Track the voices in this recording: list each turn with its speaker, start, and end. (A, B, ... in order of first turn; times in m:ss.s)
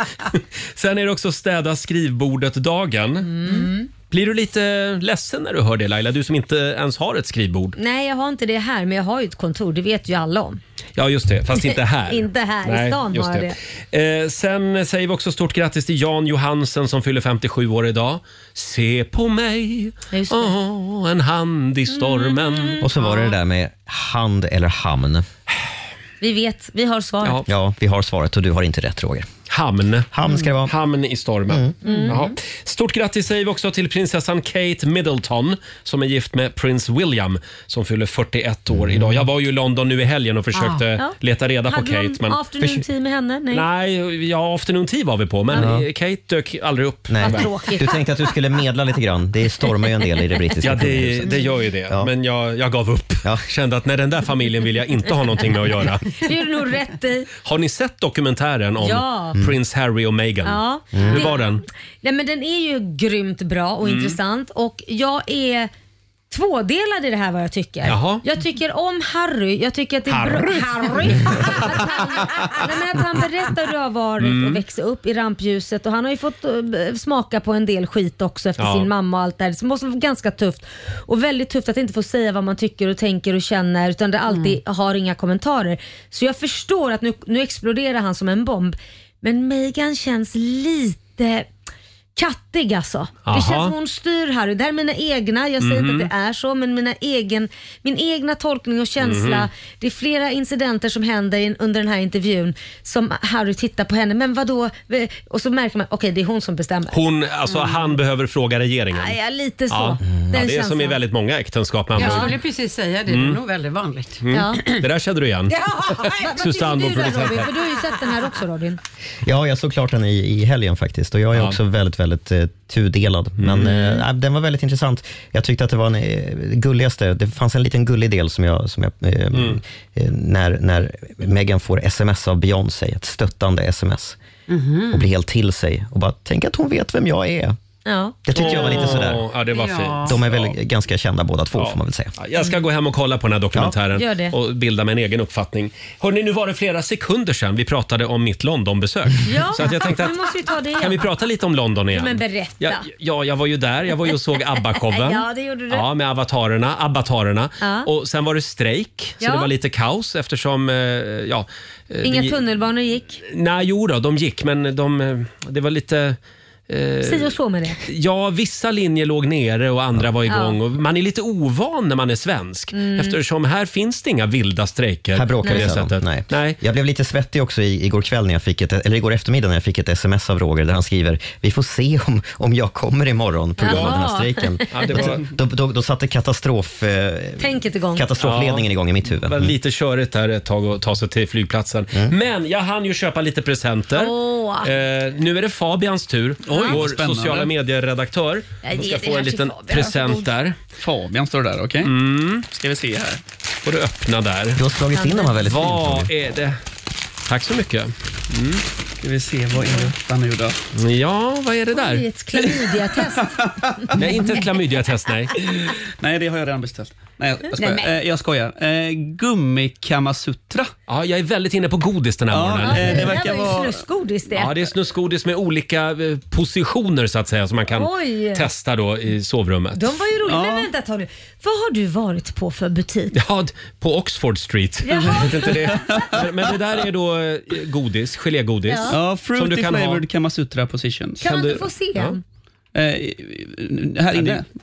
0:00.3-0:03.4 A
0:03.3-0:03.7 B
0:04.1-0:07.8 A
0:07.8-0:10.6 B
0:11.0-0:22.9 A
0:11.6-0:13.6 B
0:20.1-0:20.5 B
0:21.9-0:23.3 B
0:22.8-0:25.3 C
0:26.2-0:27.4 B
0:27.4-0:29.3 C
0:29.5-0:30.1 A
0:30.1-0:30.7 C
0:30.6-0:42.4 A
0:31.5-0:31.7 C
0:31.8-0:32.2 B
0:38.7-0:39.2 C
0:41.7-0:43.6 B
0:43.5-0:47.5 A
0:45.5-0:45.8 C
0:47.1-0:52.1 C
0:47.2-0:48.0 B
0:50.6-0:56.2 A
0:56.2-0:57.3 B
0:57.4-1:01.6 A
0:58.8-0:59.4 B
1:00.4-1:01.5 B
1:00.9-1:01.3 C
1:02.0-1:05.7 B
1:03.8-1:04.2 A
1:06.3-1:31.5 B
1:07.8-1:08.2 A
1:10.1-1:11.8 A
1:14.2-1:14.6 A
1:18.6-1:18.9 A
1:24.3-1:24.6 D
1:32.2-1:47.0 B
1:33.3-1:33.7 A
1:35.6-1:36.1 A
1:39.0-1:39.5 A
1:46.9-1:49.2 A
1:47.5-1:47.8 D
1:48.9-1:51.0 B
1:49.7-1:52.4 A
1:51.9-1:54.8 D
1:52.0-1:52.3 B
1:53.1-1:53.4 A
1:54.2-1:55.6 A
1:54.3-1:54.6 B
1:55.7-1:56.1 D
1:55.7-1:58.8 B
1:56.2-1:57.5 A
1:59.2-2:14.2 C
2:03.4-2:03.7 A
2:03.6-2:04.0 B
2:09.3-2:09.6 A
2:14.5-2:15.1 D
2:14.9-2:17.6 C
2:17.8-2:18.6 B
2:18.2-2:19.3 C
2:18.3-2:18.9 D
2:18.3-2:20.5 A
2:19.5-2:20.2 D
2:20.0-2:22.1 C
2:21.6-2:42.4 A
2:23.9-2:24.3 B
2:29.2-2:31.0 B
2:31.9-2:32.9 B
2:34.6-2:35.8 B
2:37.6-2:37.9 B
2:39.2-2:39.5 B
2:42.0-2:43.2 B
2:43.2-2:46.2 A
2:46.7-2:56.6 A
2:47.0-2:47.8 B
2:50.2-2:50.6 B
2:52.7-2:53.2 B
2:55.1-3:09.5 C
2:55.4-2:55.7 B
3:03.6-3:05.1 B
3:03.6-3:04.0 A
3:04.7-3:05.2 A
3:07.4-3:08.1 B
3:08.2-3:20.6 A
3:13.9-3:14.7 B
3:16.4-3:17.5 E
3:16.5-3:16.8 B
3:18.6-3:20.3 B
3:20.8-3:21.9 E
3:21.8-3:22.5 A
3:22.5-3:23.2 E
3:23.6-3:24.6 A
3:24.6-3:26.1 C
3:24.9-3:25.4 B
3:25.4-3:26.6 A
3:27.3-3:28.6 A
3:29.0-3:30.6 E
3:30.7-3:32.0 A
3:31.7-3:34.4 B
3:32.4-3:32.7 E
3:33.2-3:33.8 E
3:33.9-3:35.3 A
3:35.4-3:40.7 E
3:37.6-3:37.9 B
3:40.9-3:43.2 A
3:42.3-3:43.8 E
3:42.6-3:44.6 B
3:44.3-3:50.0 A
3:47.7-3:48.5 B
3:49.7-3:53.1 B
3:50.2-3:50.7 E
3:53.1-4:00.0 A
3:54.8-3:56.1 B
3:54.9-3:56.5 E
3:58.6-3:59.0 B
3:58.9-4:01.2 E
4:01.2-4:02.2 B
4:01.2-4:02.2 A
4:02.7-4:04.4 E
4:04.1-4:04.4 A